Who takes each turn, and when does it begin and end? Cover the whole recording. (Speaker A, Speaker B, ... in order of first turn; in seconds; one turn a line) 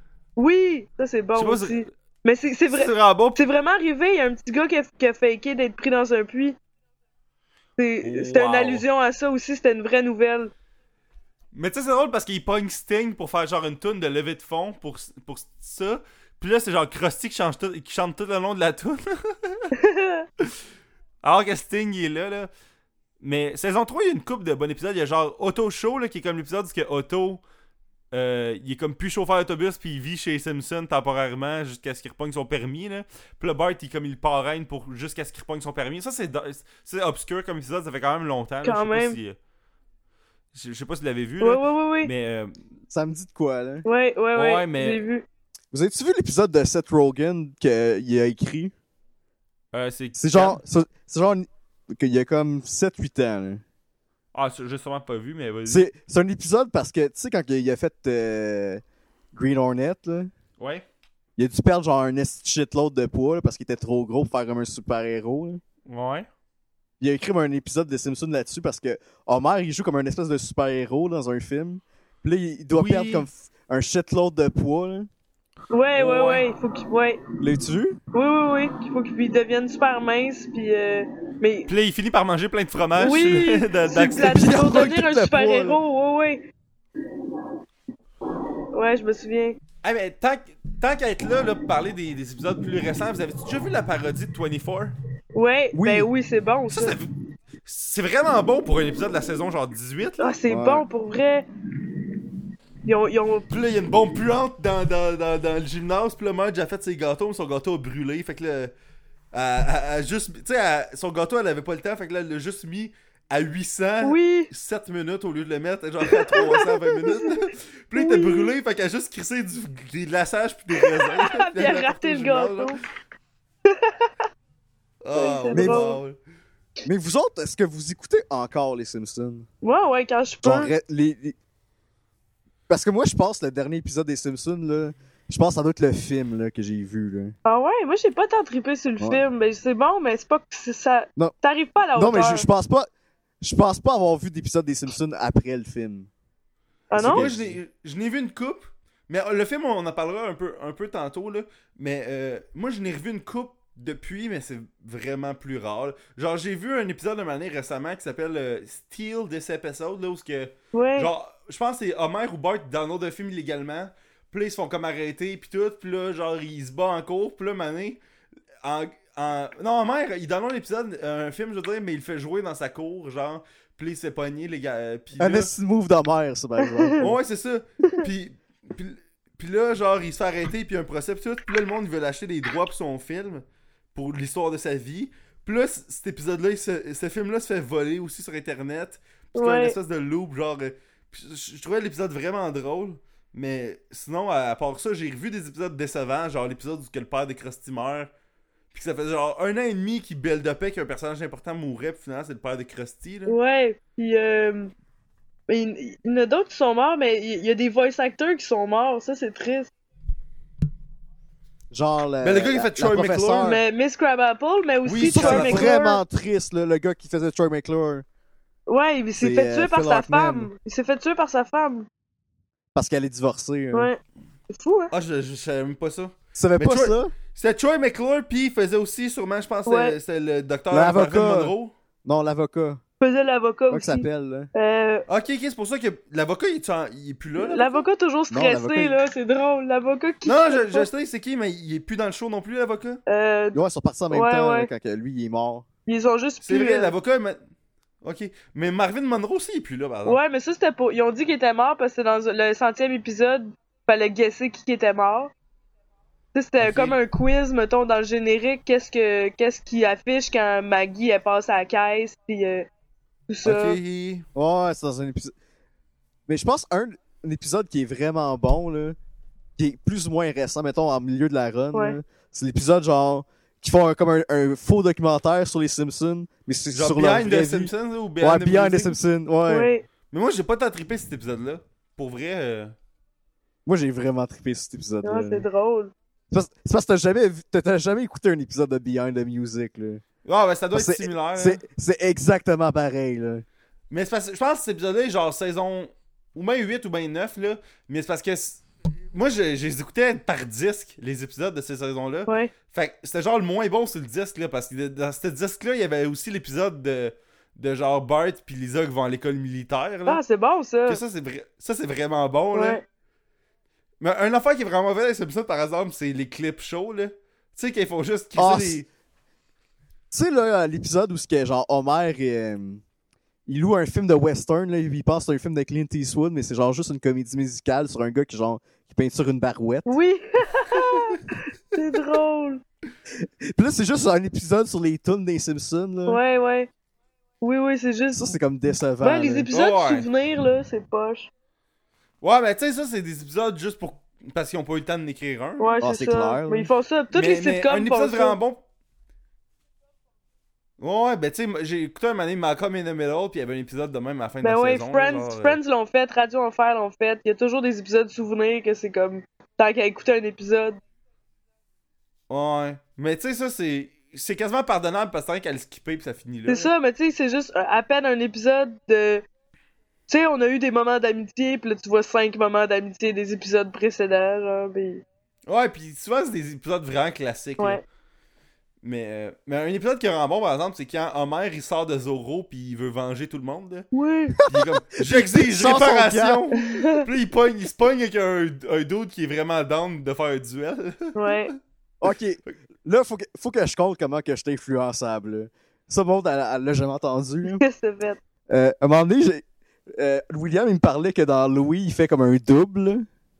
Speaker A: 0.4-6.5
Speaker B: 1.3-1.9
Speaker B: 2.7-3.4
Speaker A: 7.8-10.5
Speaker B: 8.0-8.8
Speaker B: 11.5-19.7
Speaker A: 19.8-20.2
Speaker B: 21.2-22.5
Speaker B: 23.2-27.4
Speaker B: 28.1-39.4
Speaker A: 38.6-39.2
Speaker B: 40.5-42.6
Speaker A: 41.4-42.1
Speaker C: 42.9-43.8
Speaker A: 43.8-45.2
Speaker B: 44.3-45.0
Speaker C: 45.7-48.7
Speaker B: 49.7-50.6
Speaker C: 50.1-53.6
Speaker B: 54.3-55.8
Speaker C: 55.7-58.8
Speaker C: 59.3-60.3
Speaker B: 60.6-60.8
Speaker C: 61.4-65.6
Speaker B: 65.9-66.3
Speaker C: 67.0-75.1
Speaker B: 72.7-73.3
Speaker A: 75.7-77.2
Speaker B: 75.9-76.5
Speaker C: 77.4-78.0
Speaker A: 78.1-81.7
Speaker B: 81.7-84.5
Speaker A: 83.0-86.4
Speaker C: 84.0-85.8
Speaker A: 88.7-89.6
Speaker B: 89.8-94.9
Speaker A: 95.3-97.0
Speaker C: 95.7-96.1
Speaker B: 96.7-97.1
Speaker B: 97.7-100.3
Speaker A: 100.2-101.5
Speaker C: 100.5-100.8
Speaker A: 102.8-103.5
Speaker B: 103.5-108.7
Speaker B: 109.3-122.8
Speaker A: 114.0-114.5
Speaker A: 116.1-117.4
Speaker A: 118.0-118.5
Speaker A: 120.8-122.8
Speaker A: 123.6-124.1
Speaker B: 125.0-126.2
Speaker A: 125.1-126.0
Speaker C: 125.5-125.9
Speaker C: 126.8-129.5
Speaker A: 129.6-130.7
Speaker C: 130.4-131.3
Speaker C: 132.7-137.3
Speaker A: 137.4-142.4
Speaker C: 141.9-142.9
Speaker C: 143.4-146.1
Speaker A: 146.9-147.2
Speaker C: 146.9-147.6
Speaker B: 147.0-168.0
Speaker A: 160.7-161.1
Speaker B: 168.6-175.5
Speaker C: 175.2-177.1
Speaker A: 176.6-177.1
Speaker B: 177.0-198.1
Speaker A: 189.3-189.8
Speaker B: 198.7-203.3
Speaker A: 203.3-204.7
Speaker A: 205.5-209.7
Speaker C: 211.7-213.6
Speaker B: 212.2-213.5
Speaker A: 213.4-216.0
Speaker B: 214.8-215.7
Speaker C: 215.1-218.0
Speaker A: 218.7-221.9
Speaker C: 219.2-220.5
Speaker C: 222.7-223.9
Speaker A: 223.7-224.9
Speaker B: 224.9-231.7
Speaker C: 226.3-227.1
Speaker A: 229.7-230.0
Speaker C: 230.7-231.5
Speaker C: 232.0-232.8
Speaker A: 233.0-235.1
Speaker C: 233.7-234.5
Speaker B: 235.1-237.8
Speaker A: 237.4-240.9
Speaker C: 238.3-239.0
Speaker B: 240.2-243.0
Speaker A: 243.1-243.6
Speaker C: 243.5-245.7
Speaker A: 244.1-244.7
Speaker A: 245.9-246.9
Speaker B: 246.4-247.4
Speaker B: 248.0-250.2
Speaker A: 250.0-255.3
Speaker A: 256.3-262.7
Speaker B: 256.6-257.0
Speaker A: 263.3-263.8
Speaker B: 263.4-264.2
Speaker C: 264.3-265.3
Speaker C: 266.3-269.0
Speaker C: 269.6-279.7
Speaker B: 276.7-279.0
Speaker A: 279.5-279.8
Speaker B: 280.1-282.7
Speaker C: 283.6-285.4
Speaker A: 285.0-285.9
Speaker C: 286.3-290.0
Speaker B: 290.2-291.6
Speaker C: 290.7-293.4
Speaker B: 293.9-310.2
Speaker A: 302.3-302.5
Speaker A: 310.1-311.0
Speaker B: 310.9-312.8
Speaker A: 312.5-312.8
Speaker B: 314.0-318.9
Speaker C: 318.4-318.8
Speaker C: 320.1-322.8
Speaker C: 323.5-329.9
Speaker A: 329.9-332.6
Speaker C: 333.2-336.2
Speaker A: 336.1-336.7
Speaker A: 337.4-338.3
Speaker C: 338.1-339.5
Speaker A: 339.0-341.3
Speaker B: 339.5-340.1
Speaker B: 342.2-345.8
Speaker A: 345.6-348.4
Speaker C: 345.8-346.7
Speaker B: 347.1-348.6
Speaker B: 350.8-355.6
Speaker A: 354.4-360.8
Speaker B: 362.3-366.7
Speaker A: 366.5-369.2
Speaker A: 370.1-375.0
Speaker B: 375.5-377.8
Speaker B: 378.8-383.9
Speaker A: 383.9-384.4
Speaker C: 384.4-386.4
Speaker B: 384.4-391.4
Speaker A: 386.6-387.0
Speaker A: 391.1-391.5
Speaker C: 392.0-397.6
Speaker A: 397.5-398.2
Speaker C: 398.5-399.4
Speaker C: 399.9-403.1